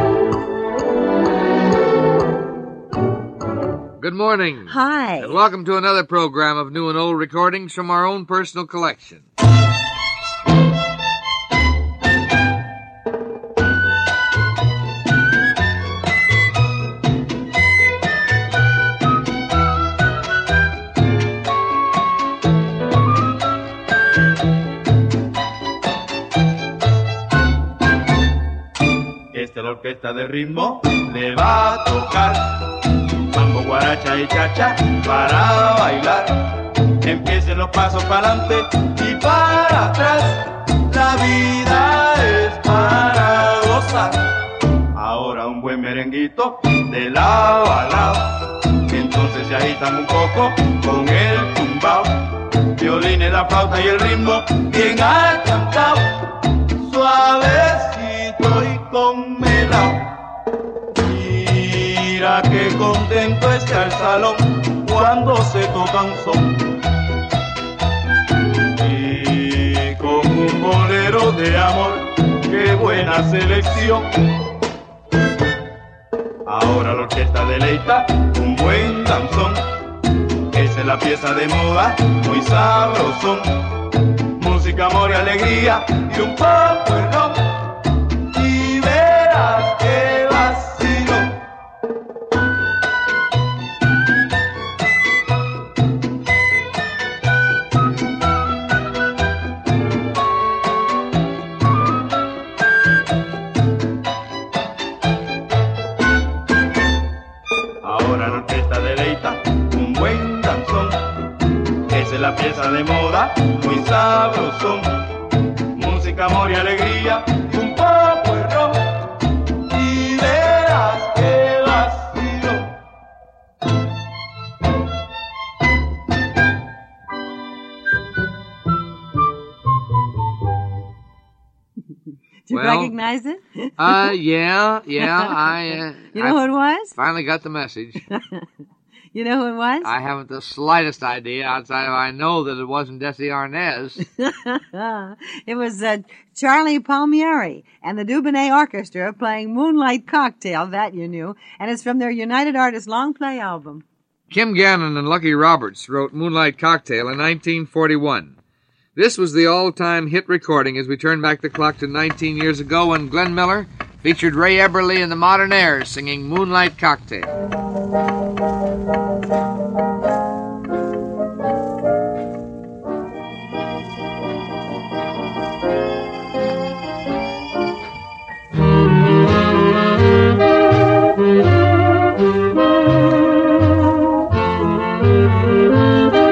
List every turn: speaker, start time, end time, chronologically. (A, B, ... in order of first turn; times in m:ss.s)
0:04.0-0:09.2 A
0:04.7-0:05.4 B
0:29.3-0:36.4 C
0:37.0-0:44.3 C
0:44.9-1:00.1 C
1:01.0-1:06.7 C
1:08.7-1:14.1 C
1:16.4-1:19.7 C
1:20.5-1:23.7 C
1:24.4-1:27.7 C
1:28.3-1:31.4 C
1:47.8-1:51.0 C
1:51.9-1:55.0 C
1:55.7-1:59.1 C
1:59.7-2:02.7 C
2:12.5-2:14.1 B
2:12.5-2:12.9 A
2:13.8-2:16.4 A
2:15.0-2:15.4 B
2:16.1-2:16.9 B
2:16.9-2:18.0 A
2:19.1-2:19.9 B
2:19.8-2:24.0 A
2:24.2-2:33.8 B
2:34.3-2:38.3 A
2:38.9-2:47.3 A